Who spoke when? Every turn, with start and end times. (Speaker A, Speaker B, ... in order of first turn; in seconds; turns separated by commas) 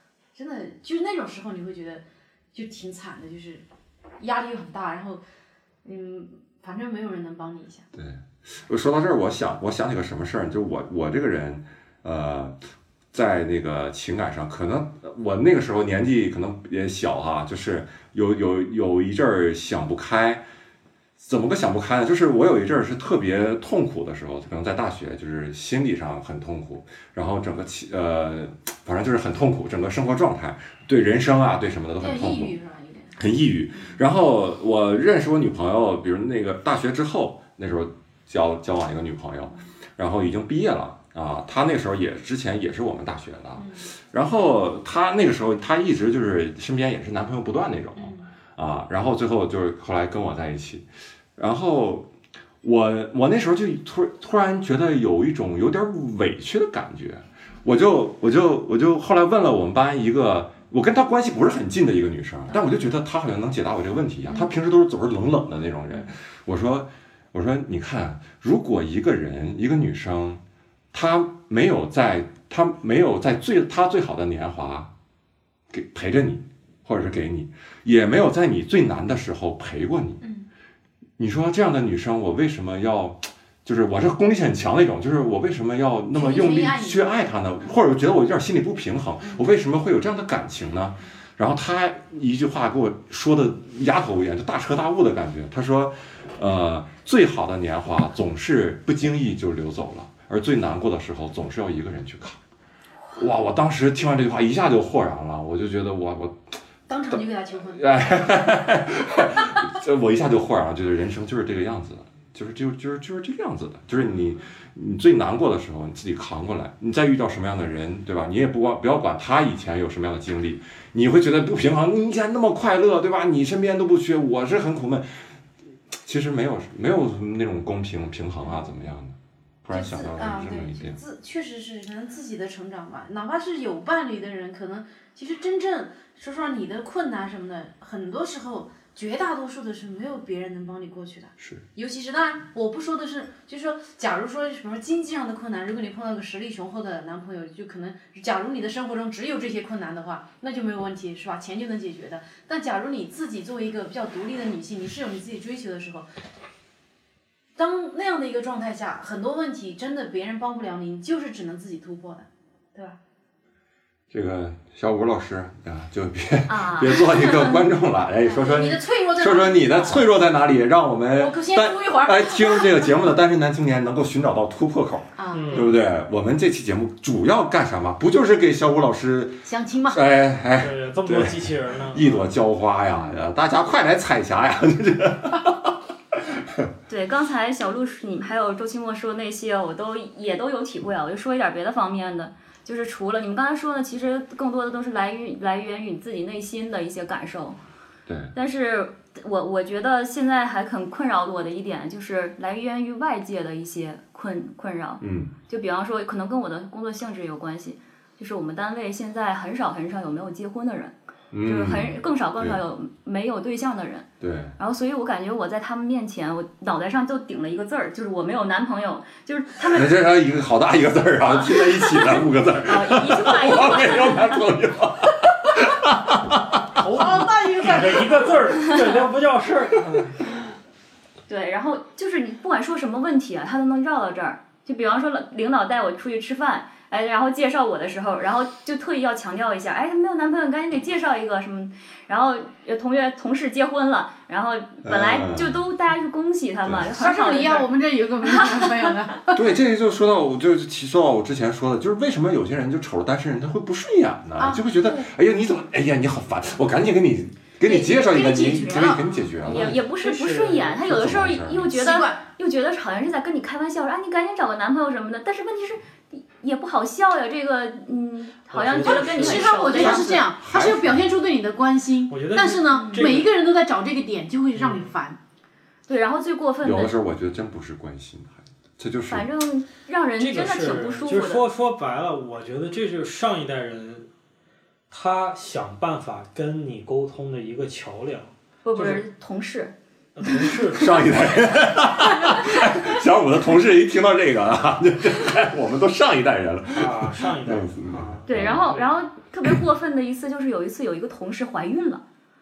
Speaker A: 0.3-3.6, Speaker A: 4.2-5.2, Speaker A: 5.8-7.8, Speaker B: 7.9-12.6, Speaker B: 13.1-20.4, Speaker B: 21.2-32.5, Speaker A: 32.0-33.1, Speaker B: 33.1-52.1, Speaker A: 43.6-43.9, Speaker A: 48.0-48.3, Speaker B: 52.6-70.4, Speaker B: 70.9-74.9, Speaker B: 75.7-80.2, Speaker A: 80.2-80.5, Speaker B: 81.2-102.4, Speaker A: 86.1-87.0, Speaker A: 89.2-89.5, Speaker B: 103.2-106.5, Speaker A: 106.9-107.8, Speaker B: 107.7-125.3, Speaker B: 125.9-131.0, Speaker A: 128.4-128.7, Speaker A: 129.7-156.1, Speaker B: 141.4-141.6, Speaker A: 157.6-163.0, Speaker B: 164.1-185.7, Speaker C: 166.5-167.5, Speaker A: 168.2-170.1, Speaker A: 171.2-172.9, Speaker A: 175.2-175.7, Speaker D: 175.3-175.7, Speaker A: 179.4-180.1, Speaker D: 180.6-182.3, Speaker B: 186.4-186.7, Speaker C: 186.9-197.6, Speaker B: 198.1-198.3, Speaker C: 198.3-214.1, Speaker B: 205.0-205.3, Speaker B: 211.3-212.6, Speaker B: 214.2-214.6, Speaker C: 214.6-219.9, Speaker B: 219.7-226.7, Speaker C: 222.6-224.4, Speaker D: 226.8-230.3, Speaker A: 226.9-228.4, Speaker C: 231.3-247.7, Speaker B: 244.8-245.6, Speaker A: 246.9-249.5, Speaker B: 249.3-259.8, Speaker A: 254.4-255.1, Speaker A: 257.7-259.0, Speaker C: 257.7-270.2, Speaker D: 259.5-260.8, Speaker B: 260.8-262.1, Speaker A: 261.8-262.2, Speaker D: 268.5-269.9, Speaker A: 268.8-275.2, Speaker B: 269.8-271.1, Speaker D: 272.1-273.4, Speaker C: 272.8-273.1, Speaker D: 274.5-274.9, Speaker C: 275.9-276.9, Speaker B: 276.6-279.2, Speaker C: 279.1-281.4, Speaker D: 280.2-284.1, Speaker D: 284.9-289.1, Speaker C: 288.6-289.7, Speaker D: 290.2-291.5, Speaker B: 290.8-298.7, Speaker C: 292.2-292.6, Speaker D: 296.7-298.9, Speaker C: 298.2-302.0